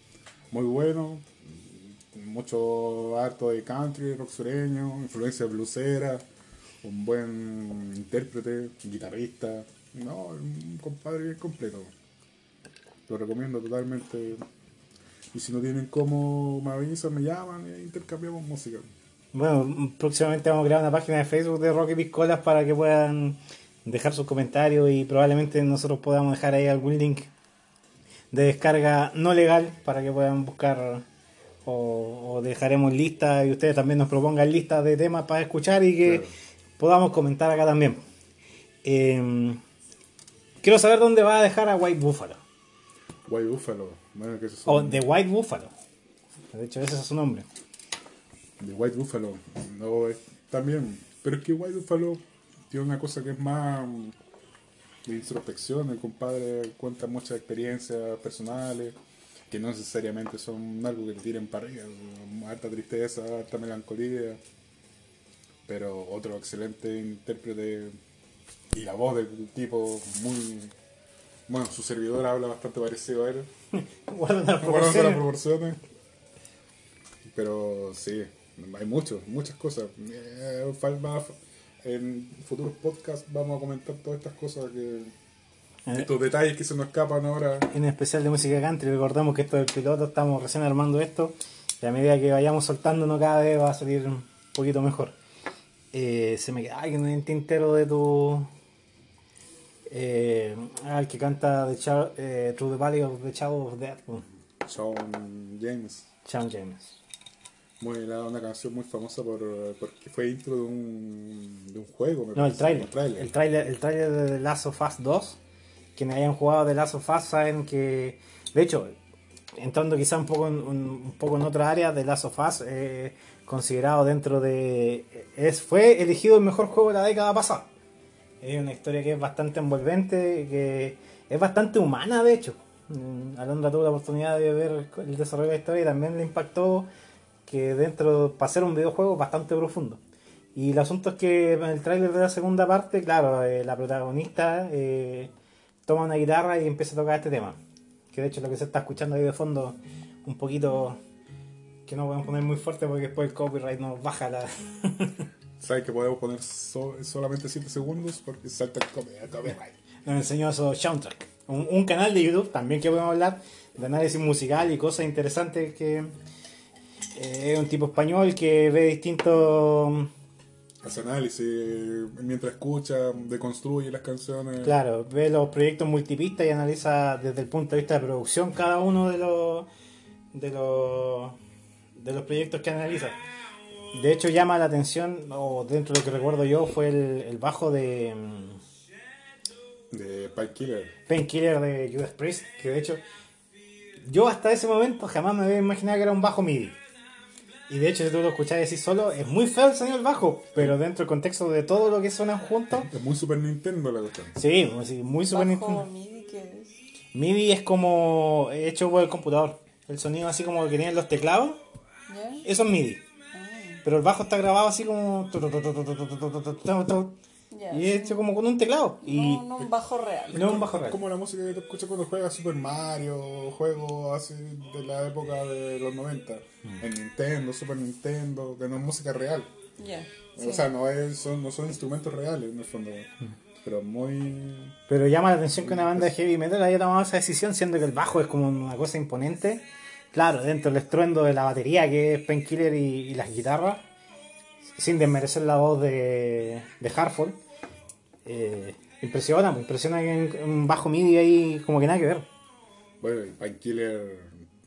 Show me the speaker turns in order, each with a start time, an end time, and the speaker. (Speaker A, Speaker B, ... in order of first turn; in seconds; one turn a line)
Speaker A: 0.5-6.2
Speaker A: 6.8-11.9
Speaker A: 13.1-14.4
Speaker A: 15.3-18.9
Speaker B: 19.3-27.3
Speaker B: 28.3-31.0
Speaker B: 31.6-36.2
Speaker A: 36.0-36.3
Speaker B: 36.8-38.0
Speaker B: 38.8-39.6
Speaker B: 40.6-42.4
Speaker A: 43.2-45.0
Speaker B: 44.6-45.7
Speaker B: 46.5-47.5
Speaker A: 48.6-54.1
Speaker A: 55.0-59.0
Speaker A: 59.5-64.4
Speaker A: 65.7-68.0
Speaker A: 68.7-70.7
Speaker A: 71.5-73.5
Speaker B: 73.7-75.2
Speaker A: 74.6-75.8
Speaker A: 77.2-85.1
Speaker A: 85.9-87.7
Speaker B: 87.7-95.1
Speaker B: 95.9-98.5
Speaker B: 99.9-104.2
Speaker A: 104.6-106.1
Speaker B: 106.2-106.9
Speaker A: 107.8-113.3
Speaker B: 112.3-115.4
Speaker B: 116.0-118.9
Speaker B: 119.6-127.7
Speaker B: 128.4-136.9
Speaker B: 137.4-140.0
Speaker B: 140.5-145.3
Speaker B: 145.8-147.6
Speaker B: 148.1-151.0
Speaker B: 151.9-155.3
Speaker A: 155.6-159.8
Speaker B: 160.1-166.1
Speaker B: 167.2-170.1
Speaker A: 170.8-174.8
Speaker B: 174.6-179.7
Speaker B: 180.3-181.4
Speaker B: 182.0-183.2
Speaker B: 183.9-188.6
Speaker A: 189.9-190.9
Speaker B: 191.1-193.0
Speaker B: 194.0-196.8
Speaker B: 197.7-202.9
Speaker A: 202.8-204.3
Speaker B: 204.3-205.8
Speaker C: 205.3-206.7
Speaker B: 207.1-211.6
Speaker C: 212.1-212.4
Speaker B: 212.4-213.0
Speaker C: 213.3-213.8
Speaker B: 213.8-217.2
Speaker C: 217.5-218.2
Speaker B: 217.7-219.4
Speaker C: 219.0-220.6
Speaker A: 220.3-229.5
Speaker B: 220.3-221.0
Speaker C: 229.8-230.7
Speaker A: 230.3-233.1
Speaker A: 233.6-234.8
Speaker B: 234.9-243.8
Speaker A: 235.6-236.1
Speaker B: 244.8-247.4
Speaker B: 248.2-252.2
Speaker A: 253.0-254.5